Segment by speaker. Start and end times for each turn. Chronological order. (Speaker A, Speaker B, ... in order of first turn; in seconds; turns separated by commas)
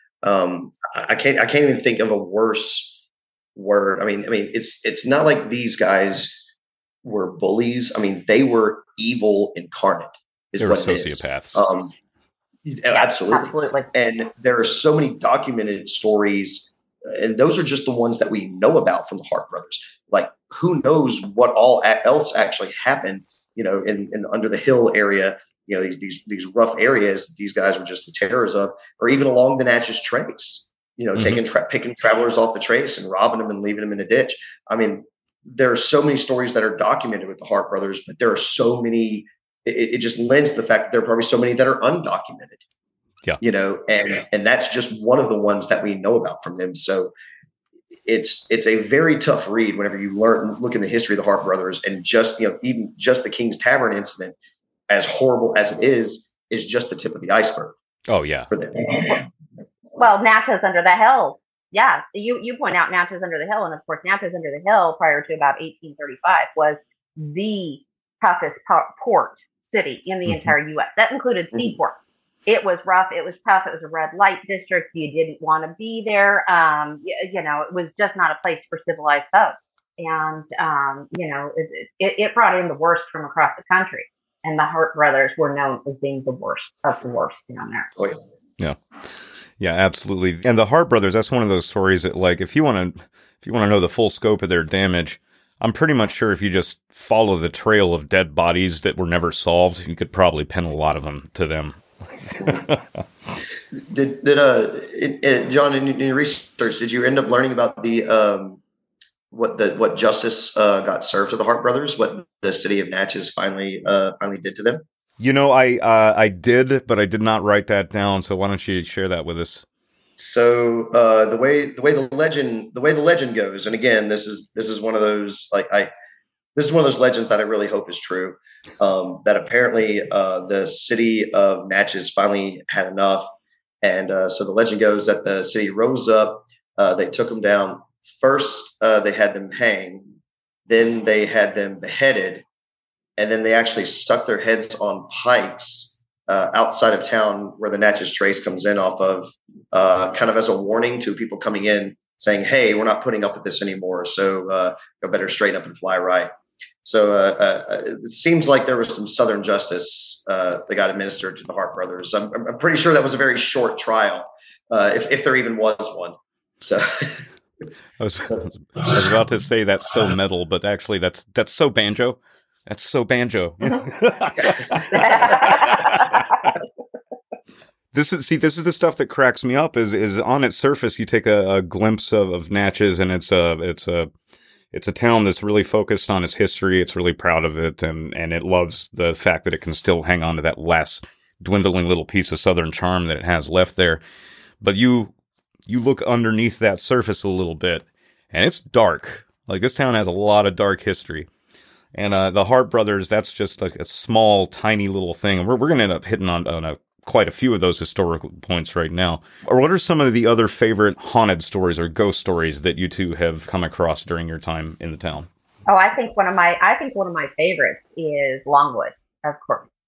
Speaker A: 0.2-3.0, Speaker A: 3.5-6.5, Speaker A: 7.0-11.9, Speaker B: 10.6-11.7, Speaker A: 12.7-42.6, Speaker C: 12.9-13.9, Speaker A: 43.4-47.1, Speaker A: 48.0-54.4, Speaker A: 54.9-57.7, Speaker B: 58.1-58.5, Speaker A: 58.5-59.2, Speaker C: 60.0-87.9, Speaker B: 89.6-102.8, Speaker A: 103.7-108.6, Speaker A: 109.3-114.8, Speaker B: 115.2-119.6, Speaker A: 120.2-125.9, Speaker A: 126.5-133.3, Speaker A: 133.8-140.0, Speaker A: 140.7-142.4, Speaker A: 143.2-156.3, Speaker A: 156.8-167.2, Speaker B: 168.0-176.2, Speaker A: 174.4-175.3, Speaker C: 174.9-176.2, Speaker B: 177.9-184.1, Speaker B: 184.7-194.0, Speaker B: 194.6-195.1, Speaker B: 195.7-201.3, Speaker B: 201.9-215.3, Speaker C: 215.7-219.7